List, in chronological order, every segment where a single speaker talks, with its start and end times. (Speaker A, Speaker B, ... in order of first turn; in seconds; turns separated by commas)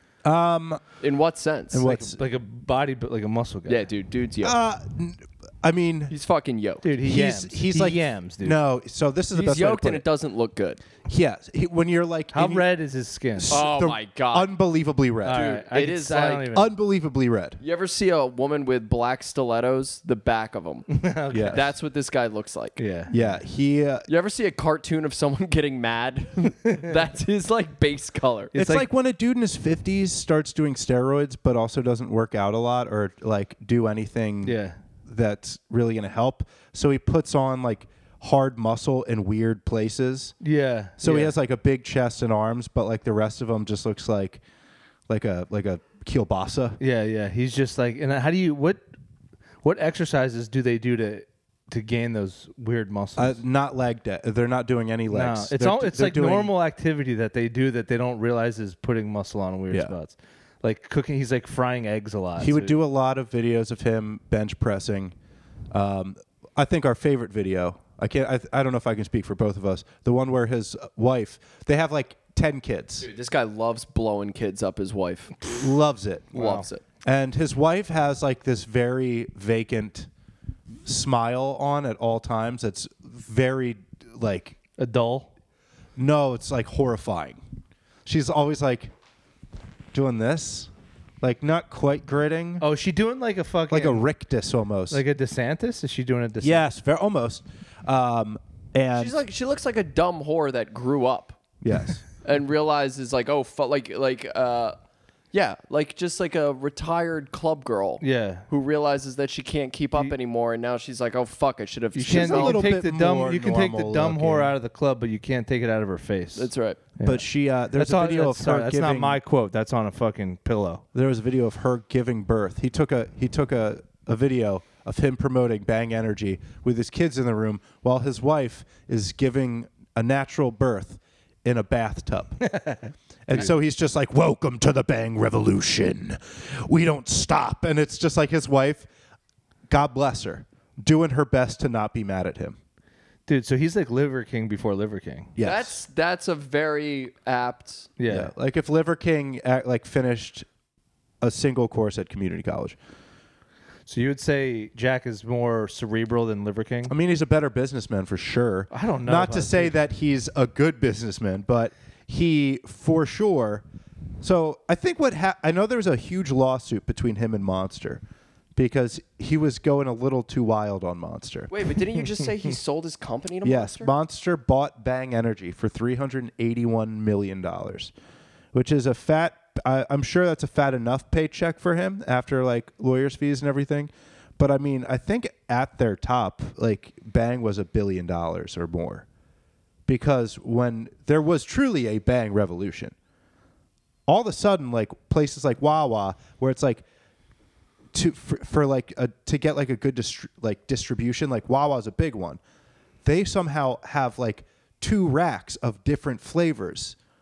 Speaker A: 0.2-0.8, Speaker B: 1.0-1.9, Speaker A: 1.7-2.2, Speaker C: 1.8-3.8, Speaker B: 3.7-4.6, Speaker A: 4.4-6.1, Speaker B: 6.1-6.8, Speaker C: 6.8-8.6, Speaker A: 7.0-10.0, Speaker B: 9.3-10.8, Speaker A: 11.0-12.7, Speaker C: 12.3-13.6, Speaker A: 13.3-15.4, Speaker B: 13.5-14.5, Speaker C: 15.2-16.7, Speaker B: 15.3-16.5, Speaker A: 16.5-17.6, Speaker B: 17.6-21.0, Speaker C: 20.9-21.7, Speaker A: 21.3-21.6, Speaker B: 21.5-22.8, Speaker C: 22.8-23.1, Speaker A: 23.1-24.1, Speaker B: 24.1-28.5, Speaker C: 28.5-28.9, Speaker A: 28.5-40.3, Speaker C: 34.4-34.8, Speaker C: 40.4-41.3, Speaker A: 41.0-44.4, Speaker A: 45.1-46.8, Speaker C: 46.8-48.9, Speaker C: 49.6-53.4, Speaker A: 53.2-56.5, Speaker C: 55.1-62.8, Speaker A: 62.4-65.1, Speaker A: 65.7-73.1, Speaker B: 73.0-75.6, Speaker A: 75.5-76.5, Speaker B: 76.3-76.8, Speaker C: 76.4-76.7, Speaker A: 77.0-80.1, Speaker A: 80.8-84.5, Speaker C: 84.8-85.3, Speaker A: 86.0-87.4, Speaker A: 88.0-88.9, Speaker A: 89.9-90.7, Speaker A: 91.2-92.6, Speaker C: 92.6-94.0, Speaker A: 93.7-95.0, Speaker C: 94.9-96.6, Speaker A: 96.4-99.1, Speaker B: 99.0-101.4, Speaker A: 101.6-102.0, Speaker B: 102.2-104.8, Speaker B: 105.3-112.7, Speaker C: 108.0-108.5, Speaker C: 111.9-120.8, Speaker A: 112.1-114.5, Speaker B: 116.3-116.9, Speaker A: 117.0-119.2, Speaker A: 120.9-132.4, Speaker C: 132.4-133.5, Speaker A: 133.3-138.9, Speaker A: 139.7-142.6, Speaker C: 143.3-145.3, Speaker A: 145.4-145.8, Speaker B: 145.4-147.9, Speaker C: 148.0-148.3, Speaker A: 148.1-150.5, Speaker A: 151.2-152.8, Speaker C: 153.9-156.9, Speaker A: 156.9-163.6, Speaker C: 158.7-159.8, Speaker A: 164.2-168.0, Speaker A: 168.5-171.5, Speaker B: 171.5-173.9, Speaker A: 173.4-177.9, Speaker A: 178.5-189.1, Speaker A: 189.9-192.9, Speaker A: 194.1-196.8, Speaker A: 197.9-202.4, Speaker A: 203.0-207.0